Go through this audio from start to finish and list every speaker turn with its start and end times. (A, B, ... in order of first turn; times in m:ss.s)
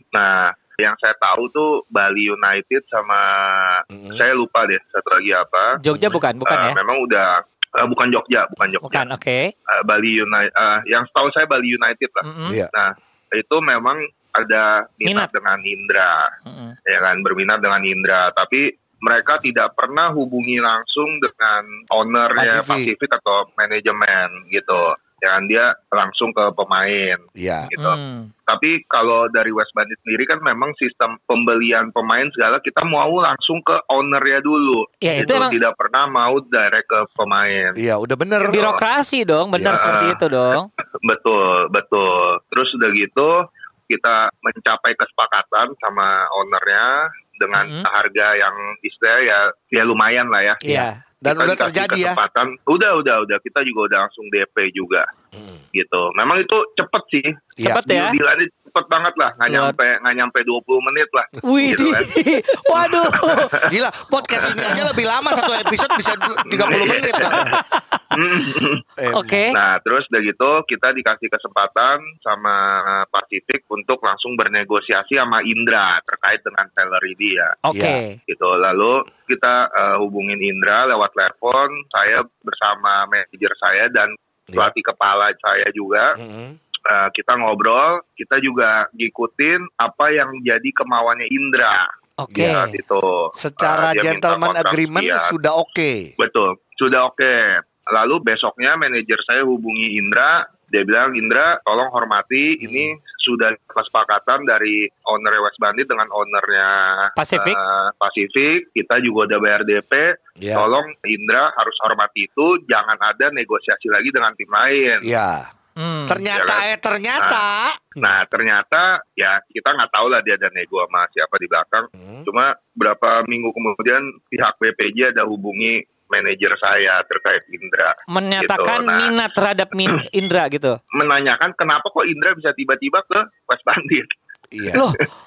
0:00.1-0:05.8 A
0:03.9-0:04.2 B
0:05.8-0:06.8 C
0:05.9-0:06.2 B
0:06.4-0:09.1 A
0:08.8-0:09.5 C
0:09.7-0:16.3 A
0:12.2-0:12.6 C
0:16.5-0:16.7 C
0:16.9-0:37.8 A
0:22.4-0:22.9 B
0:27.4-0:27.7 B
0:27.7-0:28.3 C
0:35.0-0:35.6 C
0:37.8-0:38.6 B
0:38.5-0:38.8 A
0:38.5-0:40.7 C
0:39.7-0:40.2 A
0:41.0-0:43.4 A
0:43.9-0:50.6 A
0:47.5-0:47.8 C
0:50.6-0:51.0 C
0:50.6-0:52.2 B
0:51.2-0:55.1 A
0:55.4-0:55.6 B
0:55.7-1:02.1 A
0:57.6-0:58.2 C
0:59.5-0:59.8 C
1:01.4-1:03.6 C
1:02.7-1:03.7 A
1:03.6-1:07.5 B
1:04.7-1:06.1 C
1:06.5-1:07.5 A
1:07.2-1:07.8 C
1:08.1-1:08.8 A
1:09.0-1:09.4 B
1:09.1-1:09.6 C
1:09.5-1:17.6 A
1:17.7-1:18.2 C
1:17.7-1:18.0 B
1:18.3-1:26.2 A
1:26.2-1:26.6 B
1:26.9-1:31.9 A
1:32.2-1:32.7 C
1:32.3-1:32.6 B
1:32.4-1:35.3 A
1:33.4-1:36.1 B
1:36.2-1:55.1 A
1:42.6-1:42.9 B
1:47.2-1:47.6 C
1:50.4-1:50.7 B
1:55.0-1:55.5 B
1:55.8-1:56.2 C
1:56.1-1:58.0 B
1:56.3-1:56.6 A
1:58.0-2:09.1 A
2:02.0-2:02.2 B
2:08.1-2:10.8 C
2:10.9-2:14.1 A
2:14.5-2:14.8 B
2:14.7-2:15.0 C